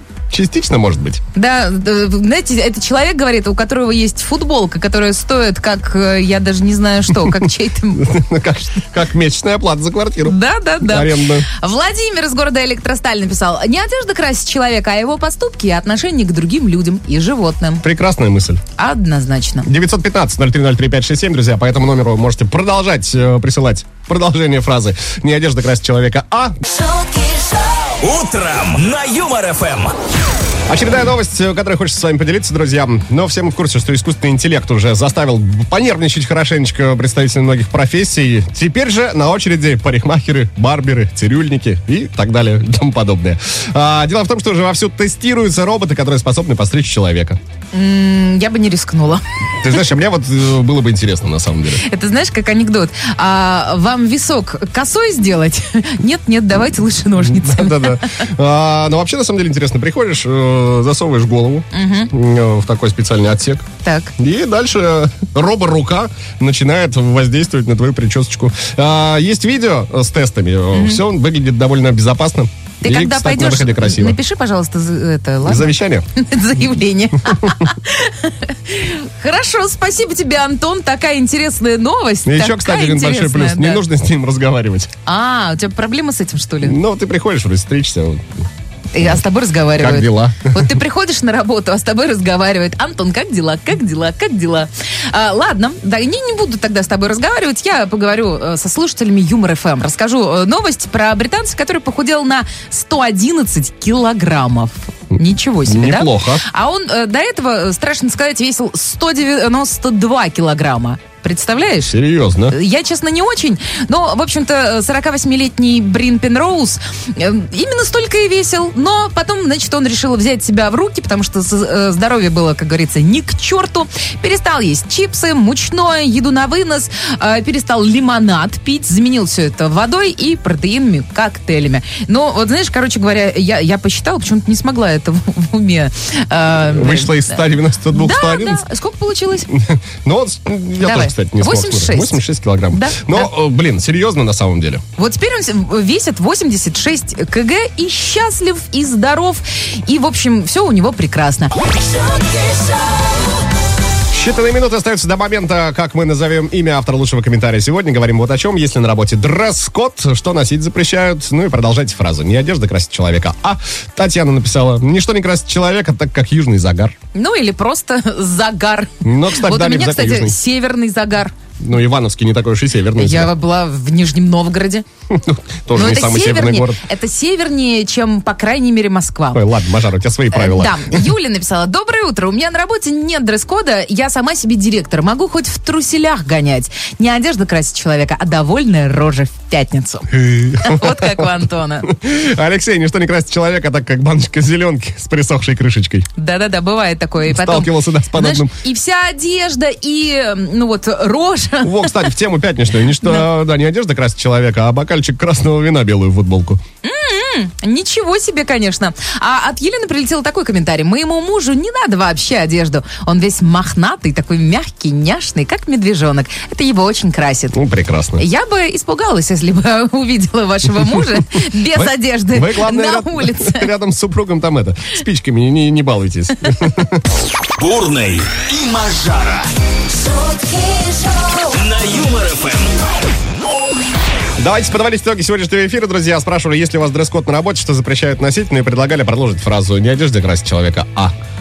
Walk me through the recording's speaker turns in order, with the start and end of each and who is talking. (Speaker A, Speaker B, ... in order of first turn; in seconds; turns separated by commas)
Speaker A: 0.3-1.2, Speaker B: 1.3-8.1, Speaker A: 7.9-11.5, Speaker B: 10.2-17.8, Speaker A: 17.8-18.6, Speaker B: 18.8-19.7, Speaker A: 19.6-26.6, Speaker C: 28.0-29.9, Speaker A: 30.7-47.4, Speaker B: 47.7-49.2, Speaker A: 49.6-51.8, Speaker B: 51.8-58.1, Speaker A: 57.2-63.6, Speaker B: 61.7-62.1, Speaker B: 63.8-64.1, Speaker A: 64.2-74.2, Speaker B: 70.7-71.0, Speaker B: 72.8-83.8, Speaker A: 75.4-76.1, Speaker A: 82.2-84.9, Speaker B: 85.0-86.8, Speaker A: 86.6-88.5, Speaker B: 88.9-112.0, Speaker A: 89.8-90.7, Speaker A: 105.6-106.4, Speaker A: 111.9-112.5, Speaker B: 112.5-139.5, Speaker A: 136.7-138.7, Speaker A: 139.5-144.8, Speaker B: 140.8-143.3, Speaker B: 145.0-152.6, Speaker A: 154.1-166.9, Speaker B: 167.1-171.4, Speaker A: 169.0-170.3, Speaker A: 171.6-173.3, Speaker B: 172.9-174.8, Speaker A: 175.1-176.8, Speaker B: 175.7-179.4, Speaker A: 179.3-181.0, Speaker B: 180.3-191.9, Speaker A: 190.1-191.3, Speaker A: 191.8-196.1, Speaker B: 196.2-202.1, Speaker A: 197.2-198.5, Speaker A: 201.6-206.6, Speaker B: 206.8-217.6, Speaker A: 217.5-218.2, Speaker B: 218.2-223.7, Speaker A: 221.6-227.0, Speaker C: 227.6-229.5, Speaker C: 231.3-232.8, Speaker A: 234.4-241.1